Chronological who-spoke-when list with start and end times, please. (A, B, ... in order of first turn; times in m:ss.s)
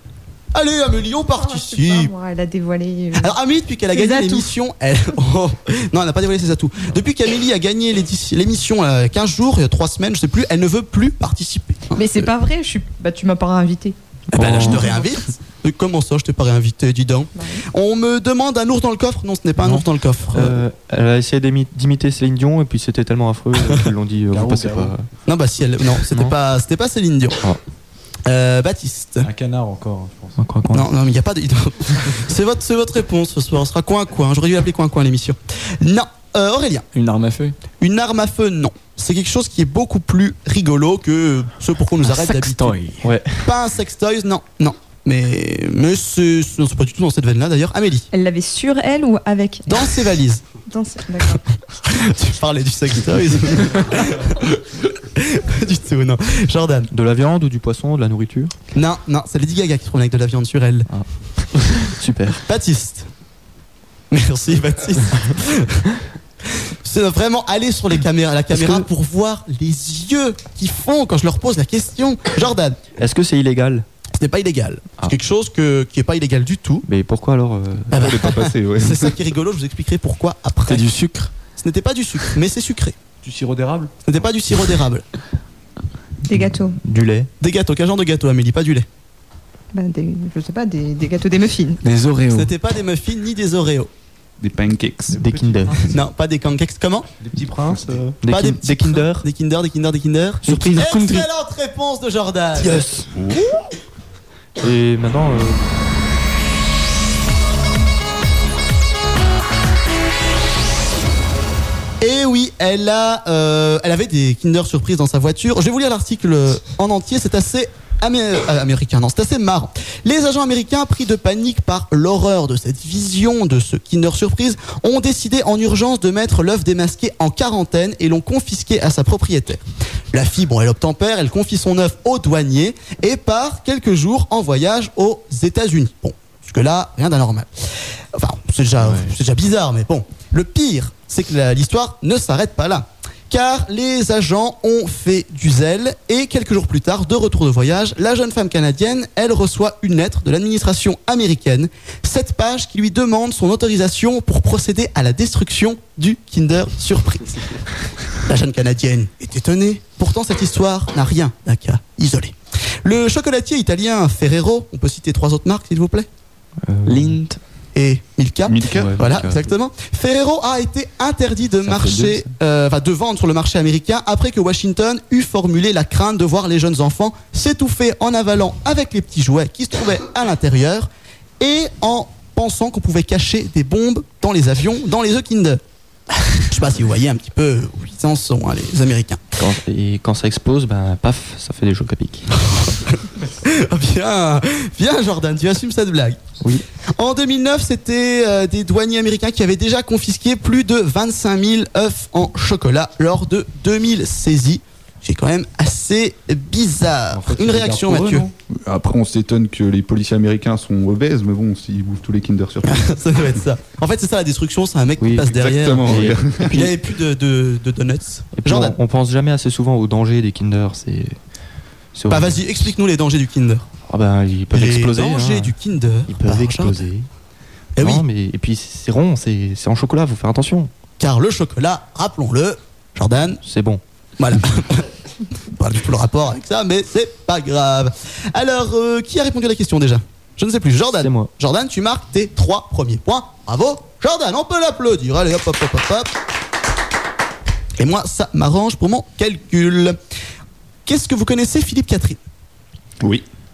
0:00.5-0:02.1 A
0:01.4-0:03.4 B
0:03.2-0:12.3 A
0:03.9-0:04.5 B
0:11.9-0:14.0 B
0:14.3-0:14.9 C
0:14.3-0:20.6 A
0:14.6-0:15.1 B
0:17.3-0:17.6 B
0:19.6-0:25.1 C
0:24.3-0:24.9 D
0:25.3-0:27.4 A
0:28.2-0:29.3 A
0:29.2-0:30.4 D
0:30.4-0:30.9 C
0:30.7-0:36.8 A
0:36.9-0:37.5 E
0:37.8-0:42.8 A
0:42.0-0:43.1 E
0:43.0-0:43.5 C
0:43.4-0:48.1 A
0:48.1-0:49.9 B
0:49.7-0:50.4 A
0:50.7-0:51.4 B
0:51.8-0:56.9 A
0:56.9-0:58.5 C
0:58.7-1:00.9 A
1:00.9-1:02.4 C
1:02.4-1:03.1 A
1:04.1-1:05.9 A
1:06.5-1:12.8 A
1:08.5-1:08.8 C
1:13.0-1:13.8 C
1:14.2-1:16.8 A
1:16.8-1:18.1 C
1:17.9-1:20.8 A
1:17.9-1:19.1 F
1:20.7-1:21.3 E
1:21.6-1:23.0 A
1:23.2-1:23.9 D
1:24.0-1:25.0 A
1:26.3-1:26.8 B
1:26.3-1:27.3 C
1:27.4-1:28.9 A
1:29.7-1:31.8 B
1:31.8-1:32.5 E
1:32.3-1:33.9 A
1:34.4-1:35.2 F
1:35.1-1:35.9 C
1:35.1-1:35.9 D
1:35.9-1:37.1 A
1:37.2-1:38.2 D
1:38.2-1:39.2 C
1:38.3-1:42.9 A
1:40.4-1:40.8 C
1:40.4-1:41.3 E
1:42.6-1:43.1 C
1:43.1-1:43.5 F
1:44.6-1:45.6 C
1:52.0-2:37.3 A
2:18.8-2:19.1 C
2:38.2-2:46.1 A
2:46.6-2:47.2 C
2:46.8-2:47.4 E
2:47.7-3:00.9 A
2:48.4-2:49.0 F
2:48.7-2:49.4 C
2:51.6-2:52.2 C
3:01.4-3:05.6 A
3:06.4-3:09.2 A
3:09.4-3:12.4 C
3:12.4-3:16.2 A
3:17.0-3:28.3 A
3:27.1-3:28.3 D
3:28.5-3:33.0 F
3:32.6-3:38.8 A
3:35.0-3:35.3 C
3:35.2-3:36.7 F
3:35.8-3:36.7 C
3:38.3-3:41.2 C
3:41.9-3:42.5 C
3:42.1-3:43.7 A
3:43.8-3:45.5 C
3:44.5-3:46.8 A
3:46.1-3:47.1 C
3:47.8-3:48.0 A
3:47.8-3:50.7 C
3:51.0-3:53.4 A
3:53.4-3:53.8 C
3:54.2-3:54.9 A
3:55.5-4:06.1 A
4:01.0-4:01.3 C
4:07.8-4:10.0 A
4:10.8-4:12.2 A